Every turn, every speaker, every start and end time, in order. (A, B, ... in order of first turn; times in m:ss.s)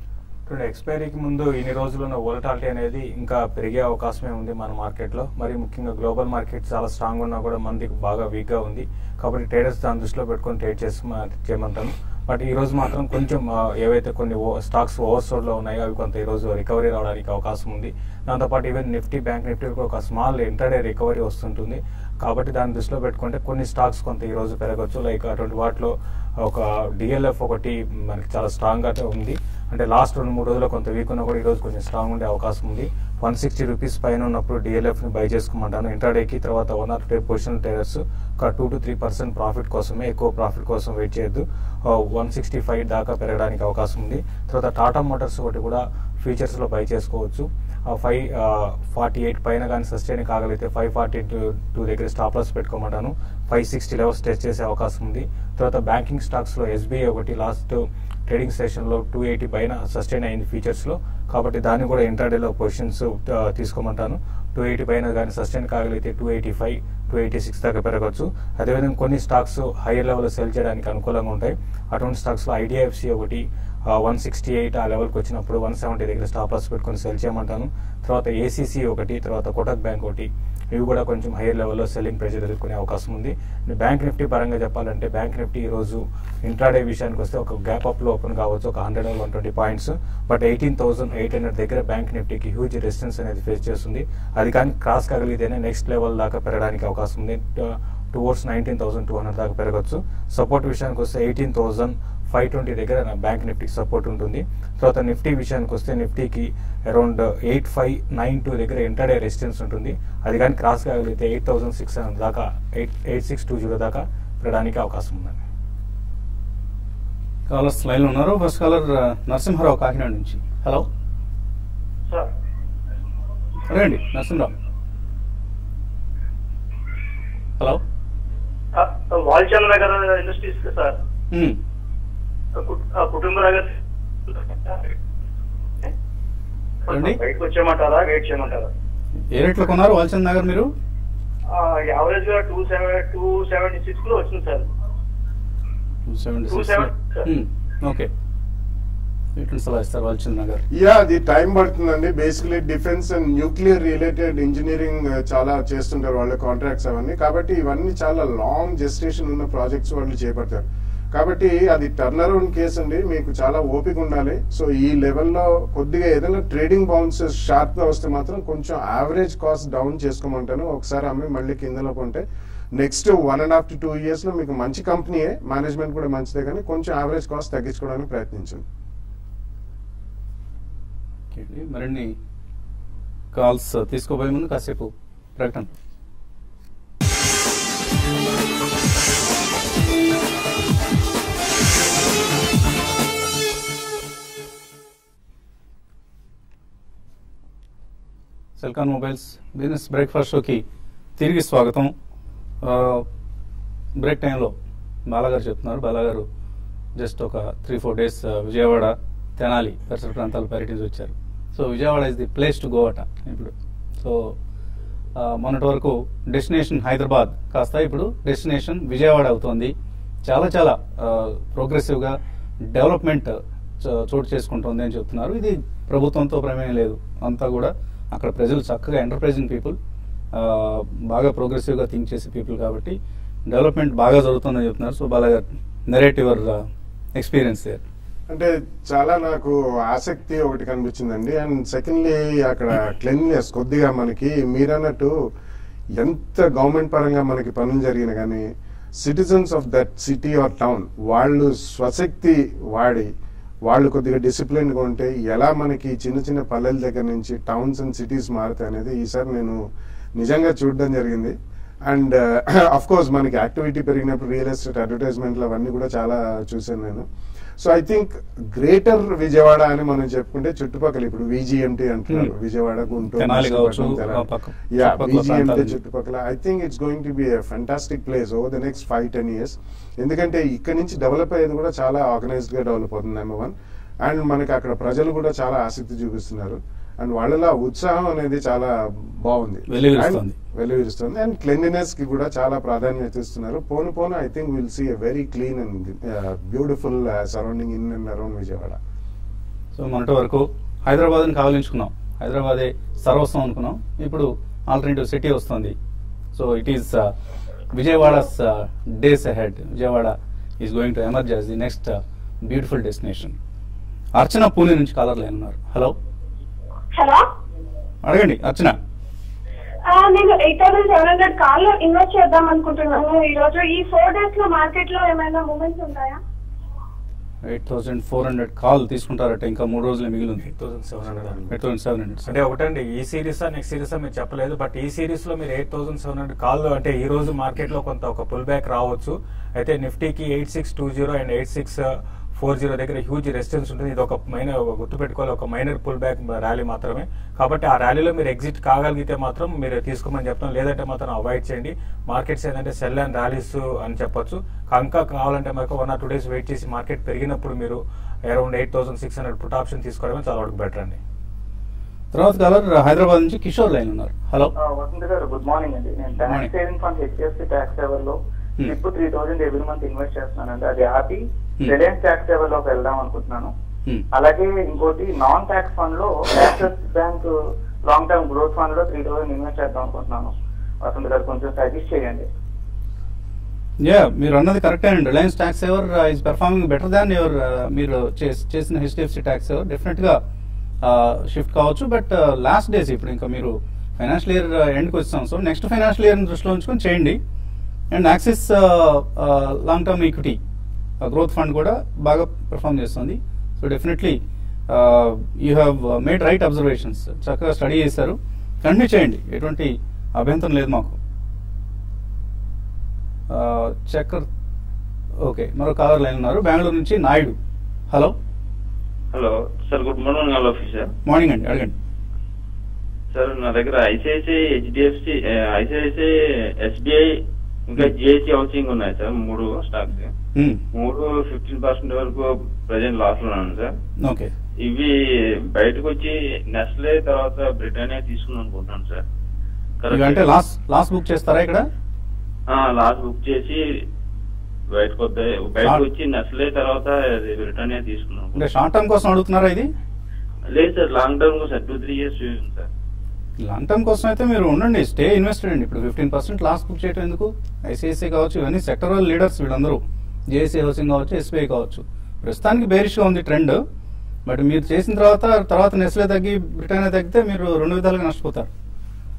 0:00.5-1:13.4 A
1:14.0-1:55.4 A
1:57.5-2:00.8 B
2:03.7-2:04.5 B
2:08.7-2:11.0 C
2:11.3-2:11.6 B
2:12.5-2:13.7 C
2:14.3-2:14.9 C
2:16.9-2:17.2 B
2:16.9-2:18.7 C
2:19.3-2:20.7 B
2:21.5-2:24.7 C
2:26.1-2:28.1 B
2:26.5-2:27.2 C
2:29.4-2:30.6 B
2:30.7-2:52.2 D
2:52.7-2:58.6 D
3:01.3-3:02.1 B
3:03.3-3:05.7 B
3:18.6-3:20.6 B
3:21.2-3:21.9 B
3:22.6-3:23.0 B
3:24.0-3:24.5 B
3:25.1-3:26.2 B
3:27.0-3:34.3 B
3:35.2-3:39.7 B
3:40.2-3:42.2 B
3:42.7-3:49.8 B
3:50.3-3:53.0 B
3:53.5-3:56.6 B
3:57.1-3:57.8 B
3:58.3-4:05.1 D
4:06.0-4:08.4 D
4:09.0-4:13.1 D
4:13.7-4:19.6 D
4:20.2-4:21.3 D
4:21.8-4:27.0 D
4:27.6-4:43.5 D
4:33.0-4:35.8 B
4:44.0-4:58.8 D
4:49.7-4:50.3 B
4:59.7-5:05.7 B
5:06.3-5:07.1 B
5:07.7-5:13.4 B
5:14.1-5:15.9 B
5:16.9-5:17.2 E
5:18.0-5:18.7 B
5:19.8-5:26.2 E
5:27.4-5:30.5 B
5:30.5-5:31.4 A
5:31.5-5:32.3 B
5:32.2-5:41.8 A
5:42.4-6:01.0 A
6:02.1-6:04.5 B
6:04.6-6:13.5 F
6:06.2-6:06.5 B
6:14.1-6:22.3 F
6:23.8-6:30.2 B
6:30.8-6:37.2 B
6:37.9-6:40.4 B
6:41.0-6:44.2 B
6:44.7-6:51.0 B
6:53.3-6:54.2 B
6:55.2-6:57.4 B
6:59.1-7:00.9 G
7:01.0-7:01.7 B
7:03.1-7:06.1 G
7:06.6-7:07.0 G
7:07.7-7:10.1 G
7:10.3-7:10.6 B
7:10.7-7:13.7 G
7:14.0-7:14.3 B
7:14.6-7:14.9 G
7:15.5-7:19.0 G
7:19.9-7:20.2 G
7:19.9-7:21.6 B
7:22.5-7:23.6 G
7:24.7-7:28.3 G
7:25.6-7:25.9 B
7:28.3-7:29.7 B
7:30.6-7:32.6 G
7:33.4-7:39.8 B
7:40.3-7:43.6 B
7:44.2-7:48.5 B